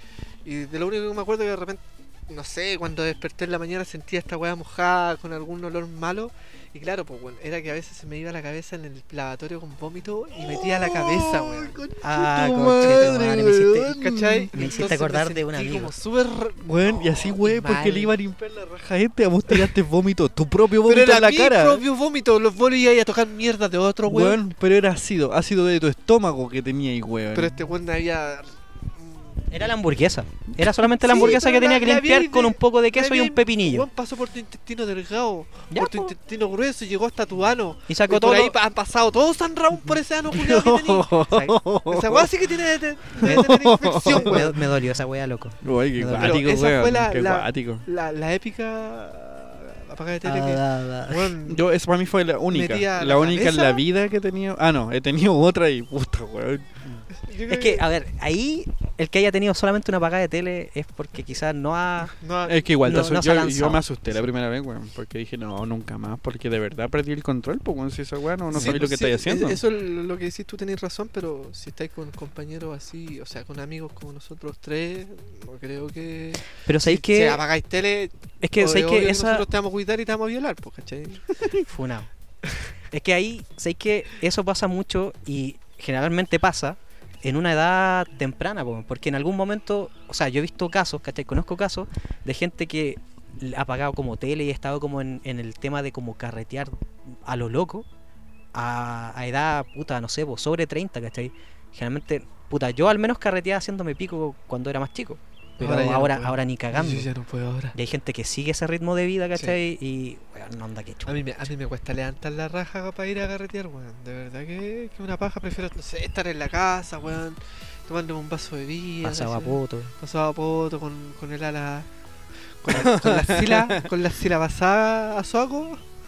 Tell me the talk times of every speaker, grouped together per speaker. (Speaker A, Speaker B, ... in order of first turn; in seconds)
Speaker A: 0.4-11.8, 12.8-13.2, 13.9-18.1, 20.9-24.4, 27.4-29.6, 31.0-44.6, 46.2-51.6, 52.5-53.8, 57.2-57.9, 62.2-62.7, 68.5-81.3, 105.6-107.8, 111.1-121.9, 122.6-125.8
Speaker B: 10.5-14.5, 16.6-21.8, 24.1-27.6, 40.4-42.3, 43.2-44.5, 45.6-47.9, 51.5-56.7, 62.4-69.6, 122.7-123.9
Speaker C: 12.0-14.0, 14.5-15.9, 29.5-33.9, 35.7-36.1, 37.9-38.5, 44.0-46.4, 50.2-51.3, 56.8-62.1, 62.8-63.8, 76.6-77.4, 78.4-79.5, 81.6-82.1, 82.9-97.9, 98.5-107.1, 107.7-111.5, 119.0-119.9